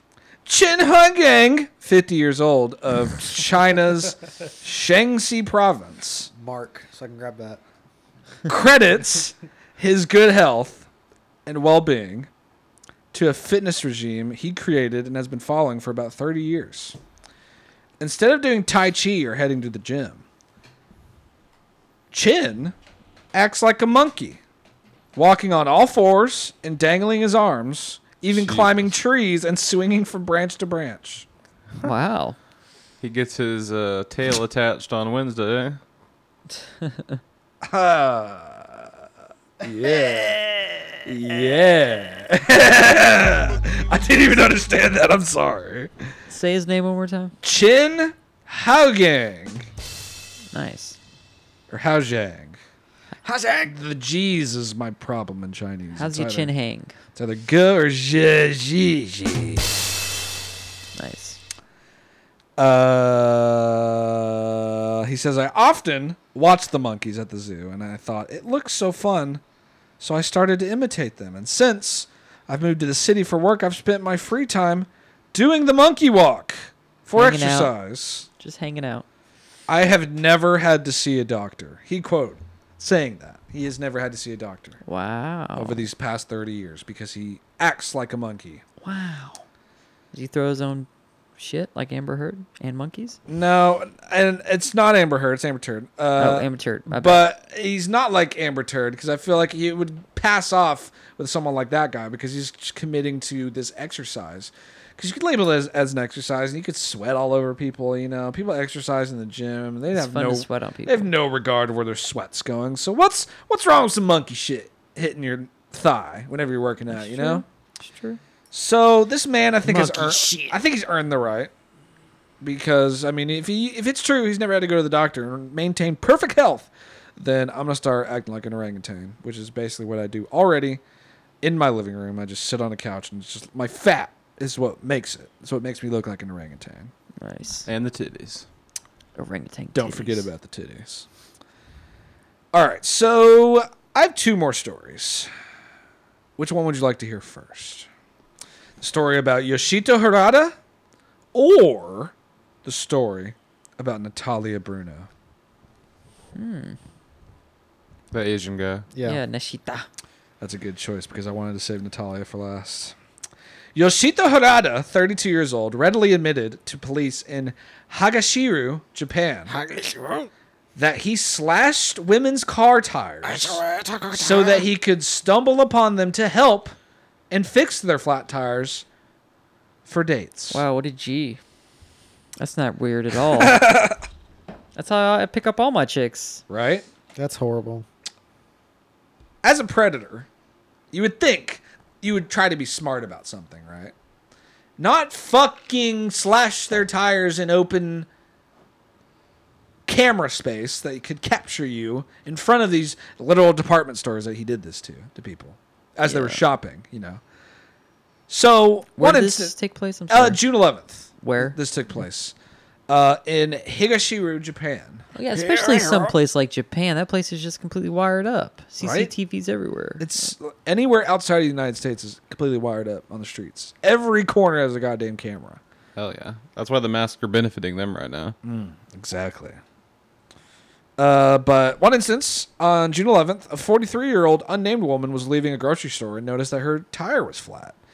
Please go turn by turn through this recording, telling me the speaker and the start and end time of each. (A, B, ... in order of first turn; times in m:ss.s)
0:00.4-0:06.3 A
0:06.4-0:07.6 B
0:08.5-0:10.9 A
0:11.5-0:12.3 A
0:13.1-0:17.0 A
0:18.0-0:20.2 A
0:22.1-0:22.7 A
0:23.3-0:24.4 A
0:25.2-0:31.3 A
0:28.3-0:28.9 C
0:31.8-0:32.4 D
0:33.0-0:35.8 C
0:36.8-0:37.2 D
0:37.7-0:38.9 A
0:39.6-0:45.9 A
0:46.3-0:47.4 D
0:47.4-0:49.7 A
0:50.5-0:51.0 D
0:51.7-0:52.6 A
0:53.2-0:53.7 B
0:53.6-0:56.5 A
0:56.0-0:56.9 D
0:57.2-0:59.8 A
1:01.0-1:01.4 D
1:02.6-1:09.4 A
1:10.0-1:18.3 A
1:17.2-1:17.7 D
1:18.4-1:19.0 D
1:19.7-1:24.8 A
1:24.8-1:25.9 D
1:25.5-1:28.6 A
1:28.8-1:29.4 D
1:30.1-1:33.2 D
1:33.3-1:57.4 A
1:36.2-1:37.2 D
1:49.9-1:51.1 D
1:56.9-1:58.2 D
1:58.5-2:01.5 A
1:59.6-2:00.6 B
2:02.4-2:10.8 A
2:11.4-2:16.9 A
2:17.2-2:17.7 D
2:17.7-2:18.5 C
2:19.2-2:20.3 D
2:19.7-2:21.1 A
2:22.5-2:25.3 A
2:26.4-2:27.9 A
2:28.8-2:30.6 A
2:31.3-2:32.1 A
2:32.6-2:35.1 A
2:36.4-2:36.8 D
2:38.1-2:38.9 C
2:38.9-2:39.2 B
2:39.0-2:39.9 D
2:40.4-2:42.9 A
2:43.8-2:49.6 A
2:49.5-2:50.3 B
2:50.8-2:56.8 A
2:53.2-2:54.7 B
2:57.3-2:58.8 A
2:59.9-3:00.6 A
3:00.5-3:01.4 D
3:02.4-3:03.6 D
3:03.2-3:04.0 A
3:04.8-3:06.4 D
3:06.5-3:06.8 A
3:07.2-3:07.9 B
3:09.4-3:10.3 A
3:10.9-3:13.9 A
3:14.8-3:18.1 A
3:19.9-3:27.2 A
3:26.0-3:26.4 D
3:28.3-3:29.5 A
3:29.0-3:30.4 D
3:30.1-3:32.3 A
3:31.2-3:31.6 D
3:32.9-3:36.1 A
3:35.2-3:40.3 D
3:38.8-3:39.1 A
3:40.0-3:45.6 A
3:46.0-3:48.4 C
3:48.4-3:49.6 A
3:51.0-3:57.8 A